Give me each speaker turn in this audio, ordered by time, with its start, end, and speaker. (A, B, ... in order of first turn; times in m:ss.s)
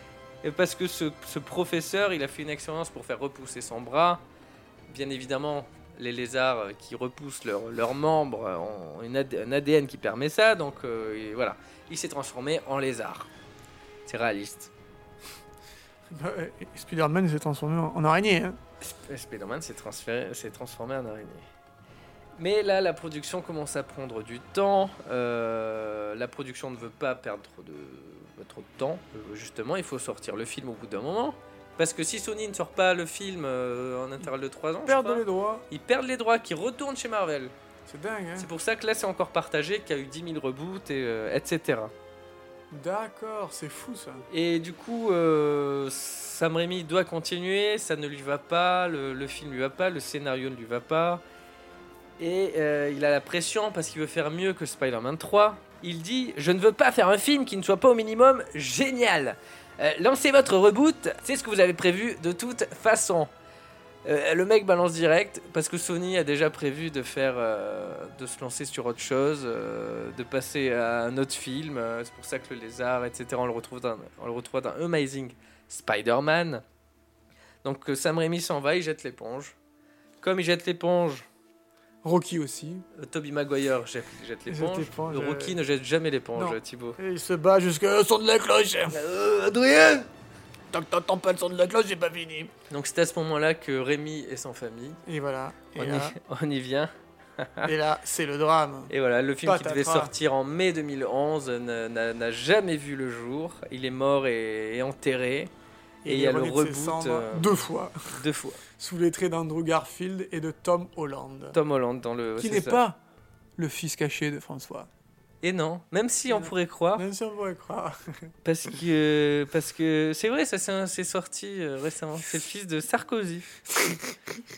0:00.4-0:04.2 A
0:04.9-0:13.3 A
0:14.0-0:14.7 A
0:16.1-0:18.6 B
0:18.8-0:21.4 A
0:22.4-0:37.5 A
0:34.8-0:35.6 B
0:37.9-0:38.5 B
0:38.4-0:41.9 A
0:42.7-0:44.2 B
0:44.3-0:51.2 A
0:52.2-1:03.3 A
1:04.0-1:16.6 A
1:17.6-1:19.6 A
1:20.2-1:21.2 A
1:22.0-1:22.8 B
1:23.0-1:27.0 A
1:24.5-1:25.6 B
1:26.3-1:29.0 B
1:28.9-1:30.1 A
1:30.7-1:32.5 B
1:32.7-1:35.0 A
1:35.0-1:36.2 B
1:35.7-1:37.7 A
1:37.6-1:38.9 B
1:38.9-1:45.5 A
1:39.4-1:40.1 B
1:46.0-1:47.9 B
1:46.0-1:47.5 A
1:48.2-1:48.6 A
1:48.8-1:51.6 B
1:51.5-1:52.8 A
1:52.4-1:53.0 B
1:53.6-1:54.9 B
1:55.4-1:57.0 A
1:56.3-1:57.9 B
1:58.4-2:03.5 A